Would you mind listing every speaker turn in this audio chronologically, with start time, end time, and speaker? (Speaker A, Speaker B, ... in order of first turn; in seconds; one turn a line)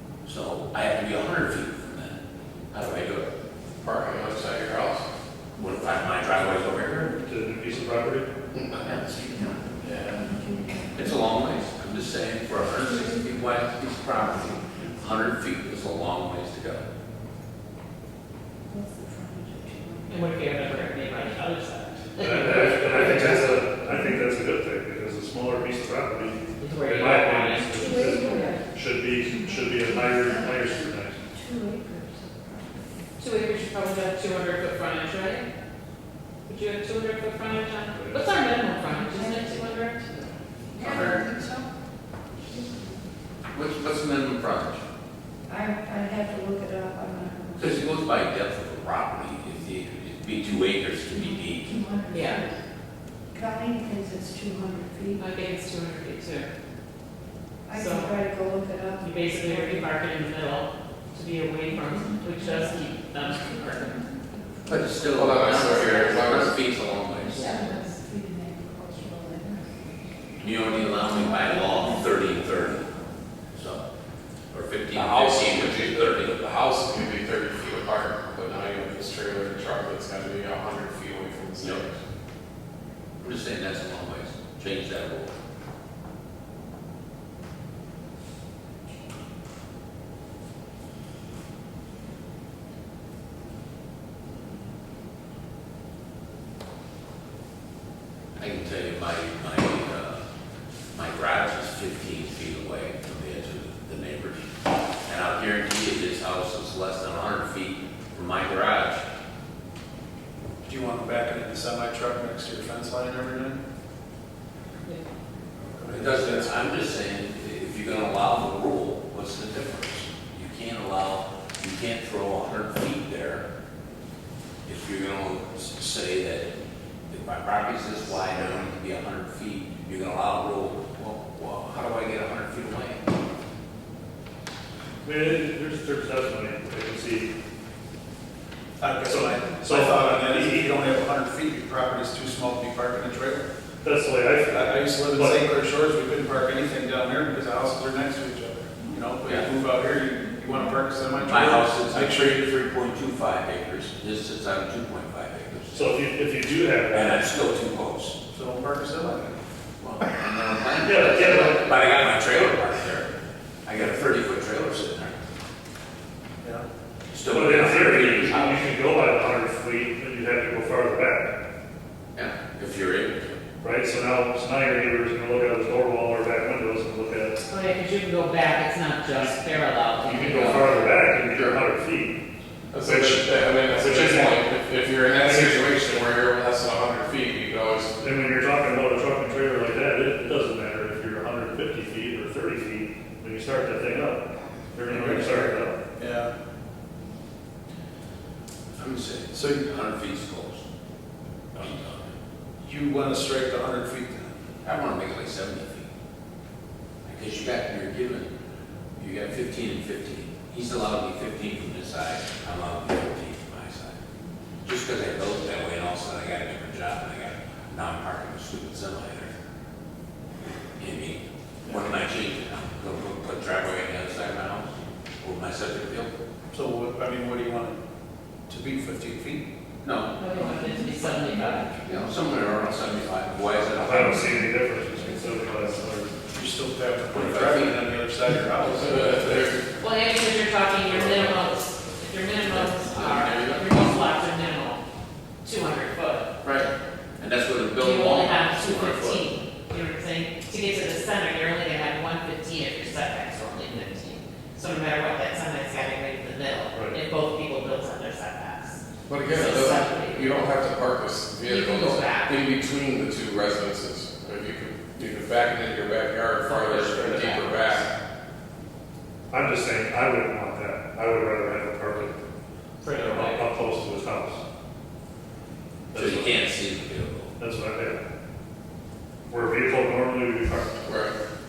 Speaker A: 0.2-2.2
Speaker A: 2.7-3.3
Speaker B: 3.8-5.1
Speaker A: 5.6-7.1
Speaker C: 7.2-8.3
Speaker B: 8.5-8.9
Speaker A: 8.8-9.6
Speaker D: 9.2-11.4
Speaker B: 9.8-10.3
Speaker A: 10.9-16.9
Speaker D: 18.7-20.8
Speaker E: 20.1-23.7
Speaker C: 22.2-31.2
Speaker E: 26.6-28.6
Speaker D: 27.7-33.1
Speaker E: 33.2-35.5
Speaker E: 36.5-40.3
Speaker C: 38.0-38.2
Speaker D: 39.1-40.1
Speaker D: 40.7-41.7
Speaker A: 40.8-41.4
Speaker D: 42.4-43.0
Speaker A: 43.5-44.8
Speaker D: 45.5-48.0
Speaker A: 47.6-52.0
Speaker D: 51.1-52.6
Speaker E: 52.1-52.4
Speaker D: 53.3-55.2
Speaker E: 55.2-56.5
Speaker D: 57.7-60.0
Speaker E: 57.7-58.2
Speaker E: 59.0-64.0
Speaker D: 61.7-65.1
Speaker A: 64.7-67.9
Speaker B: 65.1-66.7
Speaker D: 65.8-66.1
Speaker D: 67.2-70.0
Speaker A: 70.4-72.9
Speaker D: 70.7-73.0
Speaker A: 73.5-73.8
Speaker A: 74.5-76.5
Speaker B: 74.9-82.0
Speaker A: 81.6-81.8
Speaker A: 83.2-85.4
Speaker A: 98.4-100.2
Speaker A: 100.9-104.5
Speaker A: 105.1-109.0
Speaker F: 110.6-113.6
Speaker F: 115.7-116.5
Speaker A: 115.9-123.5
Speaker A: 124.7-126.5
Speaker A: 127.1-133.1
Speaker C: 135.0-137.3
Speaker F: 138.8-143.5
Speaker C: 139.1-140.6
Speaker C: 143.8-145.4
Speaker F: 144.5-152.4
Speaker A: 151.3-155.9
Speaker C: 155.7-157.3
Speaker A: 156.9-158.2
Speaker F: 158.3-159.4
Speaker A: 159.8-163.1
Speaker C: 160.8-161.6
Speaker A: 163.7-165.2
Speaker A: 167.1-168.7
Speaker C: 167.3-171.3
Speaker A: 172.2-173.4
Speaker C: 173.6-177.4
Speaker E: 177.4-181.0
Speaker C: 180.1-182.2
Speaker A: 180.3-180.7
Speaker B: 182.7-188.1
Speaker C: 182.8-184.5
Speaker C: 188.0-195.8
Speaker F: 194.9-196.3
Speaker A: 198.8-200.7
Speaker F: 199.3-199.7
Speaker A: 201.5-202.2
Speaker F: 202.6-204.3
Speaker A: 204.6-205.9
Speaker A: 207.1-208.3
Speaker A: 209.0-214.0
Speaker A: 214.6-219.3
Speaker A: 220.8-226.1
Speaker F: 226.5-227.8
Speaker F: 228.5-229.4
Speaker A: 229.8-230.2
Speaker E: 230.2-231.8
Speaker A: 231.8-234.3
Speaker C: 233.8-236.1
Speaker F: 236.2-239.5
Speaker A: 237.1-237.9
Speaker B: 238.7-239.8
Speaker E: 239.8-244.8
Speaker B: 240.9-241.5
Speaker B: 242.4-243.9
Speaker E: 245.4-246.3
Speaker B: 246.4-246.7
Speaker A: 247.2-249.3
Speaker E: 247.8-260.4
Speaker B: 259.1-267.9
Speaker E: 261.4-262.4
Speaker A: 266.5-267.7
Speaker C: 269.3-272.1
Speaker E: 272.8-273.6
Speaker C: 272.9-274.4
Speaker C: 275.9-276.4
Speaker A: 275.9-277.3
Speaker C: 277.4-278.0
Speaker C: 279.3-280.8
Speaker B: 280.8-281.2